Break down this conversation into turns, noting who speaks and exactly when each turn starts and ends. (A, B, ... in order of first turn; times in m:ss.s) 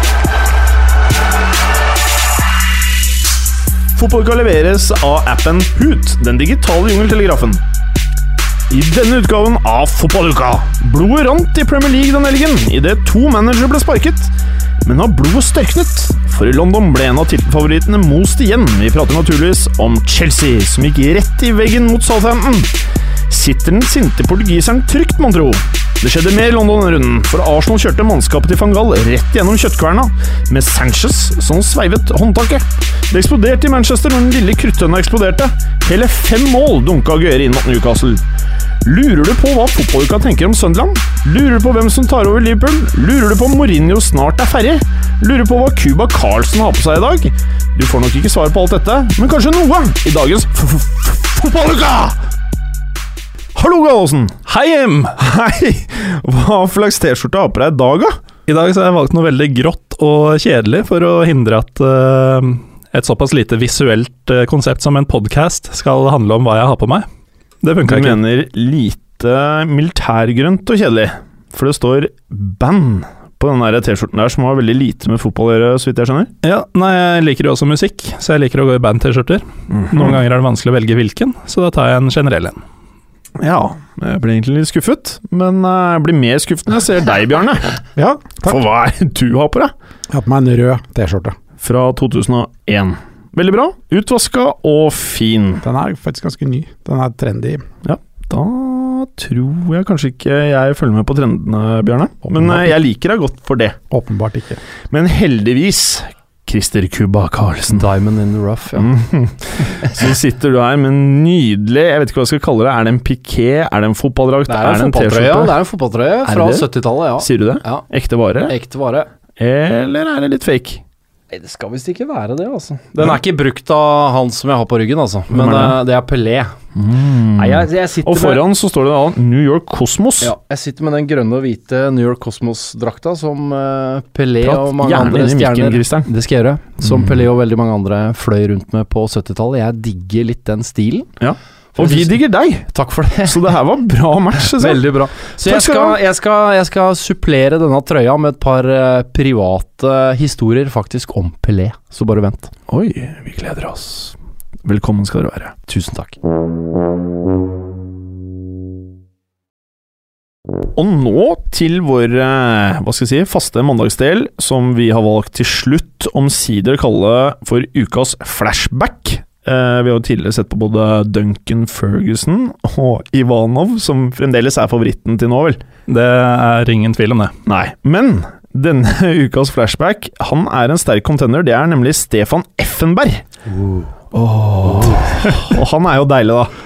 0:04.0-0:07.6 A
0:08.7-0:14.3 A
0:14.8-0:22.7 A
0:23.3-0:38.2 A
0:38.8-0:52.2 A
0:53.5-0:54.4 A
0:54.4-0:55.2 B
0:55.2-0:58.2 A
0:58.5-1:07.0 B
1:07.6-1:08.2 B
1:07.8-1:16.3 A
1:16.4-1:22.6 B
1:19.7-1:20.2 A
1:23.4-1:27.8 A
1:28.0-1:28.6 C
1:28.4-1:29.7 A
1:30.1-1:31.4 C
1:31.6-1:35.6 A
1:35.6-1:37.6 C
1:37.8-1:43.8 A
1:42.3-1:42.7 C
1:43.9-1:44.6 C
1:44.9-1:47.9 A
1:47.7-1:48.9 D
1:48.8-1:55.6 A
1:54.5-1:57.8 D
1:56.2-1:58.5 A
1:58.5-1:59.1 D
1:59.4-2:00.8 A
2:01.3-2:06.5 D
2:05.3-2:05.8 A
2:06.7-2:10.3 A
2:07.4-2:08.4 D
2:10.2-2:21.1 D
2:14.4-2:16.1 A
2:21.2-2:22.7 A
2:21.8-2:23.4 D
2:23.2-2:26.0 A
2:24.5-2:32.5 D
2:32.7-2:35.5 A
2:35.7-2:36.2 D
2:40.7-2:55.6 A
2:55.9-2:57.3 B
2:57.4-3:03.2 A
3:04.1-3:06.5 A